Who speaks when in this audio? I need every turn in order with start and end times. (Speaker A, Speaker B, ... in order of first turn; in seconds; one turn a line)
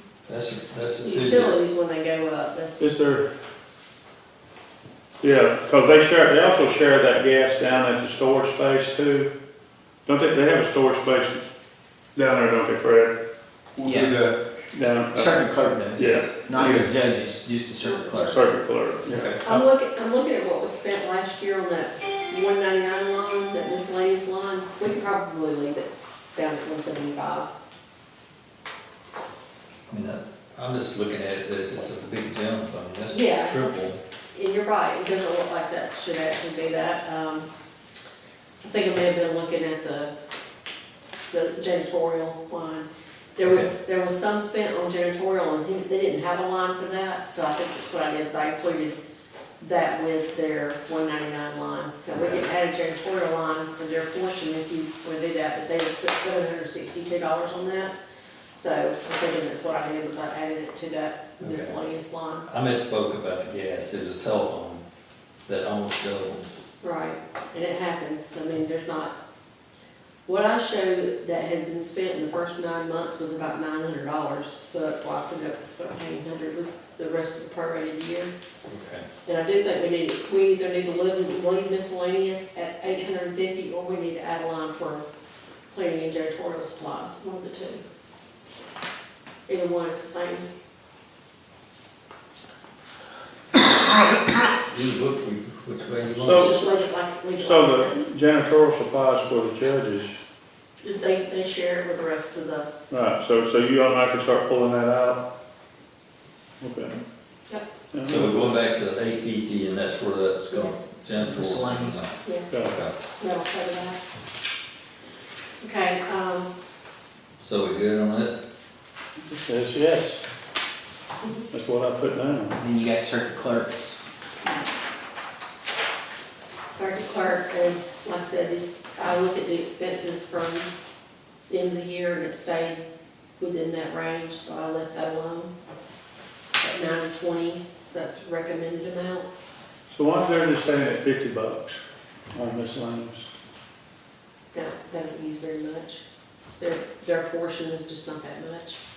Speaker A: 0.3-1.5
Speaker B: 1.0-2.9
Speaker C: 2.8-3.3
Speaker C: 5.2-9.3
Speaker C: 10.1-11.4
Speaker C: 12.2-13.2
Speaker C: 13.8-16.9
Speaker D: 13.8-14.3
Speaker D: 15.1-18.6
Speaker B: 17.8-18.4
Speaker C: 18.3-19.6
Speaker A: 19.1-19.4
Speaker B: 19.4-27.5
Speaker A: 29.9-34.0
Speaker B: 33.1-37.5
Speaker B: 38.6-40.1
Speaker B: 41.3-49.0
Speaker A: 43.4-43.7
Speaker B: 49.6-57.9
Speaker A: 52.1-52.4
Speaker B: 58.5-62.4
Speaker A: 61.4-61.8
Speaker A: 62.5-64.8
Speaker A: 65.5-66.5
Speaker B: 66.8-69.1
Speaker B: 70.2-78.3
Speaker A: 78.7-79.1
Speaker B: 79.2-85.0
Speaker B: 85.7-87.8
Speaker B: 89.5-90.5
Speaker A: 94.7-96.5
Speaker C: 96.2-96.6
Speaker B: 96.2-98.1
Speaker C: 97.4-100.2
Speaker B: 100.8-102.7
Speaker C: 102.9-105.2
Speaker C: 106.6-107.0
Speaker C: 107.9-108.5
Speaker A: 108.0-113.0
Speaker B: 110.5-110.9
Speaker D: 111.2-112.0
Speaker B: 112.2-114.0
Speaker C: 112.5-112.8
Speaker B: 115.6-116.5
Speaker A: 117.4-118.5
Speaker C: 119.3-120.2
Speaker C: 121.5-122.6
Speaker D: 122.6-124.0
Speaker B: 126.7-130.7
Speaker B: 131.5-132.8
Speaker B: 133.4-135.5
Speaker B: 136.6-139.3
Speaker C: 139.9-141.8
Speaker C: 142.3-143.3
Speaker B: 144.5-146.0
Speaker B: 146.6-148.8